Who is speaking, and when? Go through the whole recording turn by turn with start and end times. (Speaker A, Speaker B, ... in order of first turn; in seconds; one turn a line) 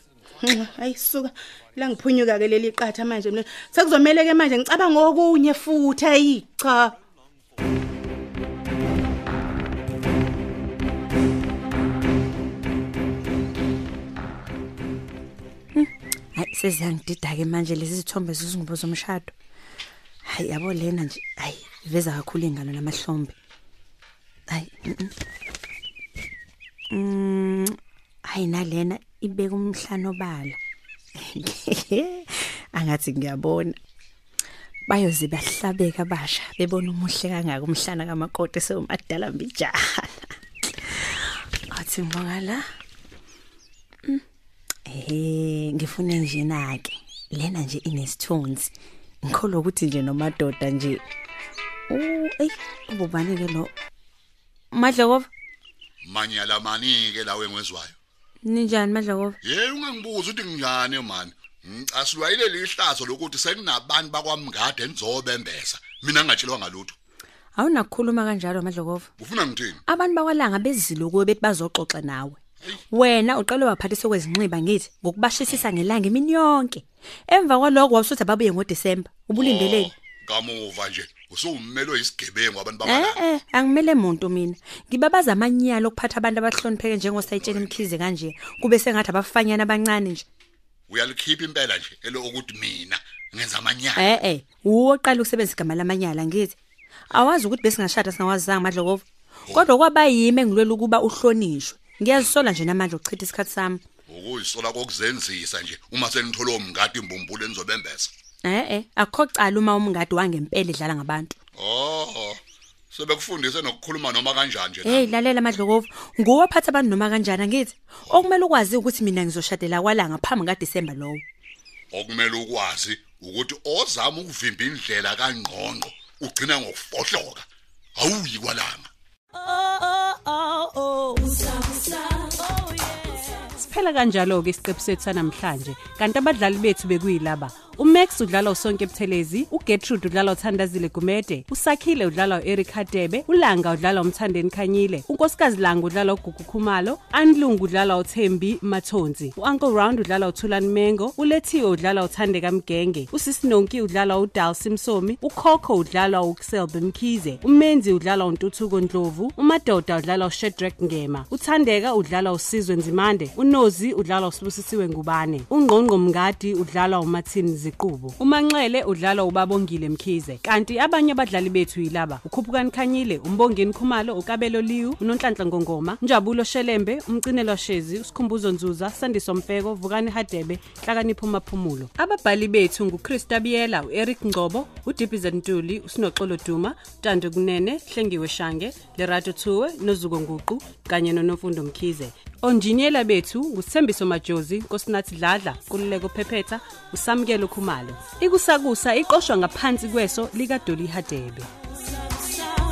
Speaker A: 0.4-7.0
Speaker B: 15.8-19.3
Speaker B: 20.3-23.3
Speaker B: 24.5-25.1
Speaker B: 26.9-27.8
Speaker B: 28.3-30.6
Speaker B: 31.3-33.8
Speaker B: 34.9-40.3
Speaker B: 41.7-42.6
Speaker B: 44.9-48.7
Speaker B: 49.3-51.0
Speaker B: 51.9-53.7
Speaker B: 54.7-55.3
Speaker C: 56.0-58.0
Speaker B: 58.4-59.4
Speaker C: 59.4-67.0
Speaker B: 67.5-69.1
Speaker C: 69.2-69.8
Speaker B: 69.9-72.4
Speaker B: 72.9-79.9
Speaker C: 79.3-83.2
Speaker B: 82.8-90.2
Speaker C: 87.4-87.8
Speaker C: 90.9-94.2
Speaker B: 94.0-96.6
Speaker B: 97.1-103.8
Speaker C: 104.1-108.1
Speaker B: 108.4-111.4
Speaker C: 111.6-112.4
Speaker C: 112.9-115.1
Speaker B: 114.8-121.2
Speaker C: 121.9-127.5
Speaker C: 128.0-128.9
Speaker D: 129.4-201.5